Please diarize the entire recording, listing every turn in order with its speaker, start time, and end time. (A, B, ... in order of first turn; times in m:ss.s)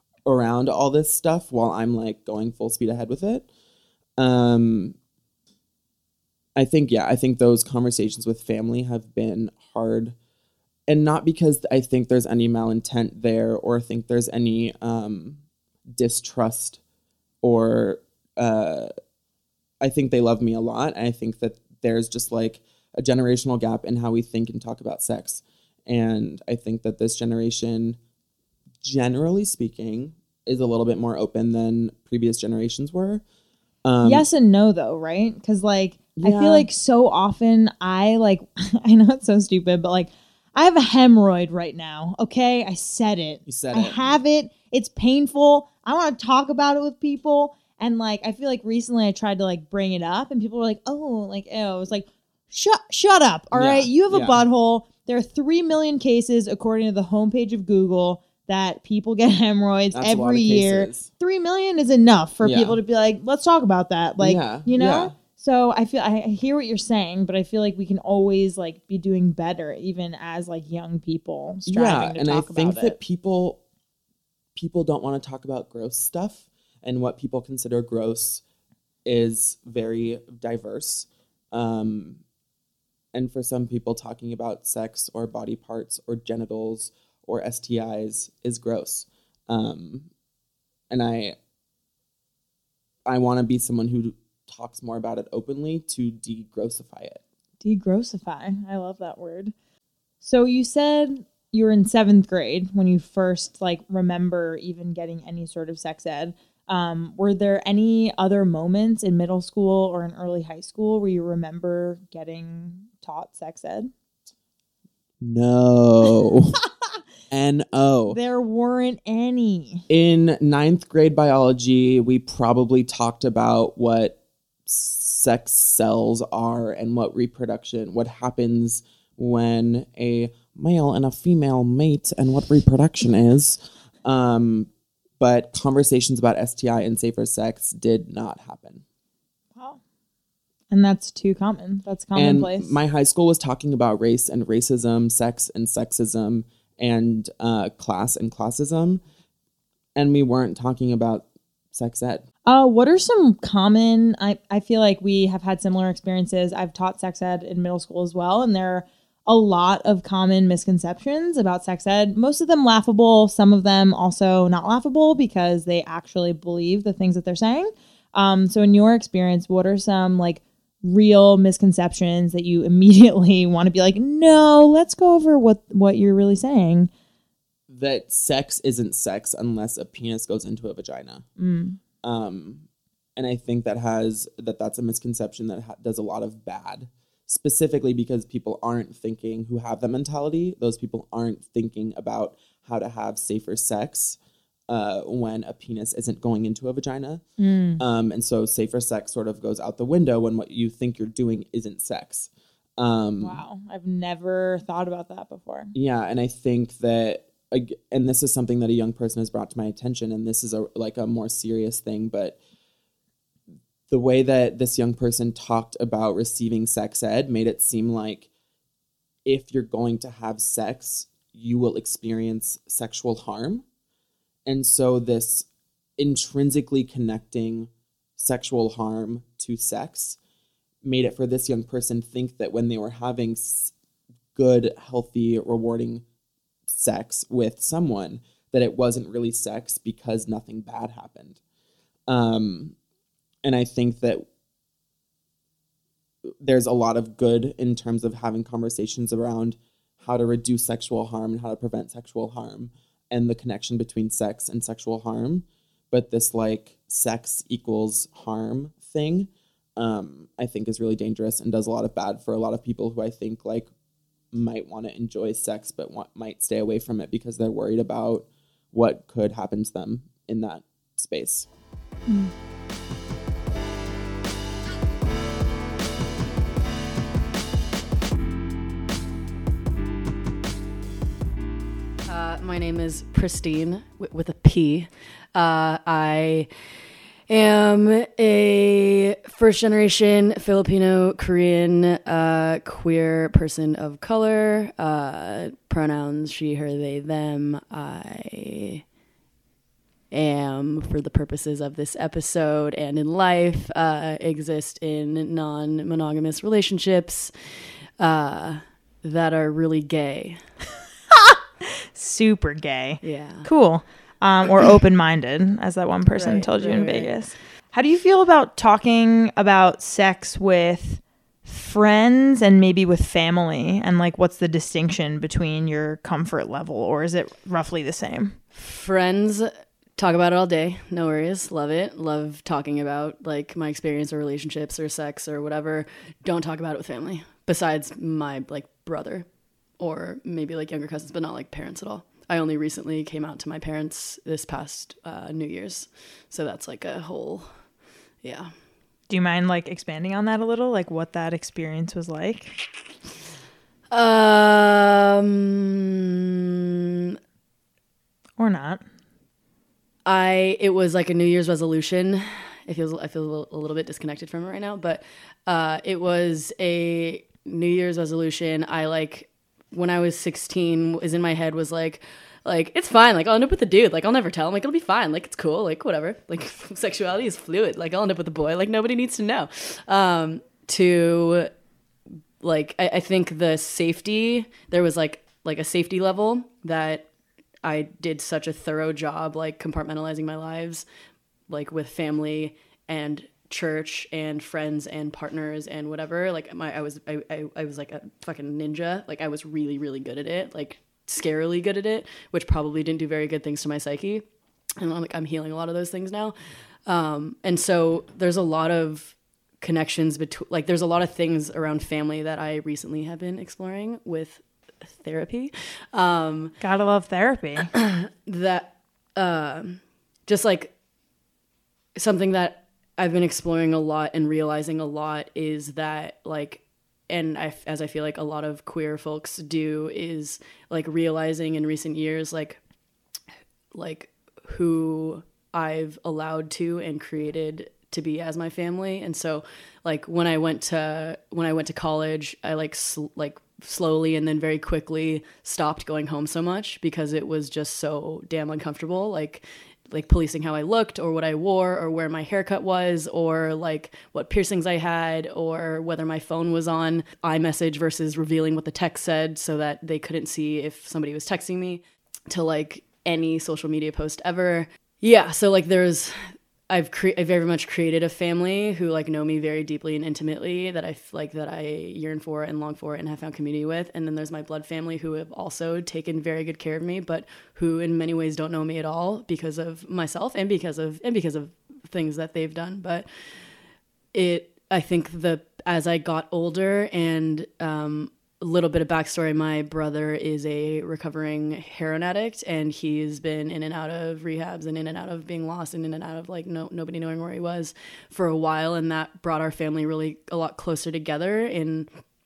0:00.2-0:03.5 A
0:04.2-0:05.0 A
0:06.6-0:10.2 A
0:10.9-0:16.8 A
0:17.4-0:18.9 A
0:19.8-0:28.0 A
0:28.8-0:33.2 A
0:33.8-0:34.3 A
0:34.0-1:13.0 B
0:36.2-0:36.7 A
0:43.4-0:44.0 A
0:53.5-0:54.4 A
0:59.9-1:01.1 A
1:02.4-1:02.8 A
1:04.2-1:05.1 A
1:11.6-1:13.6 A
1:14.5-1:18.4 A
1:19.0-1:22.2 A
1:23.1-1:30.1 A
1:30.9-1:31.4 A
1:33.0-1:37.2 A
1:37.6-1:39.5 B
1:40.2-1:53.9 B
1:55.2-1:56.6 A
1:57.3-1:58.2 A
1:58.1-1:59.8 B
1:59.9-2:18.8 A
2:20.7-2:22.8 B
2:22.1-2:29.0 A
2:30.0-2:32.2 A
2:32.5-2:56.9 B
2:57.7-3:01.2 A
3:01.4-3:01.8 B
3:02.0-3:02.6 A
3:03.2-3:14.2 A
3:14.7-3:17.2 A
3:17.4-3:17.8 B
3:17.8-3:23.4 A
3:23.2-3:25.7 B
3:25.7-3:32.4 A
3:33.9-3:38.3 A
3:39.2-3:43.6 A
3:44.5-3:45.5 A
3:46.0-3:50.2 A
3:50.8-3:53.7 A
3:54.3-3:56.0 A
3:56.7-4:01.4 A
4:02.1-4:02.8 A
4:03.4-4:04.2 A
4:06.4-4:23.7 A
4:24.3-4:31.5 A
4:42.0-4:46.5 C
4:47.3-4:58.8 C
5:00.1-5:10.5 C
5:12.0-5:28.4 B
5:13.0-5:13.5 C
5:16.1-5:17.2 C
5:28.5-5:47.7 C
5:48.2-5:48.5 C
5:49.1-5:52.6 B
5:53.9-5:56.2 C
5:58.4-5:58.8 B
6:00.0-6:21.5 C
6:22.4-6:27.1 C
6:27.6-6:30.9 C
6:31.5-6:56.6 C
6:56.6-6:57.7 B
6:57.7-7:00.8 C
7:02.0-7:12.6 C
7:13.7-8:03.5 C
8:04.1-8:22.0 C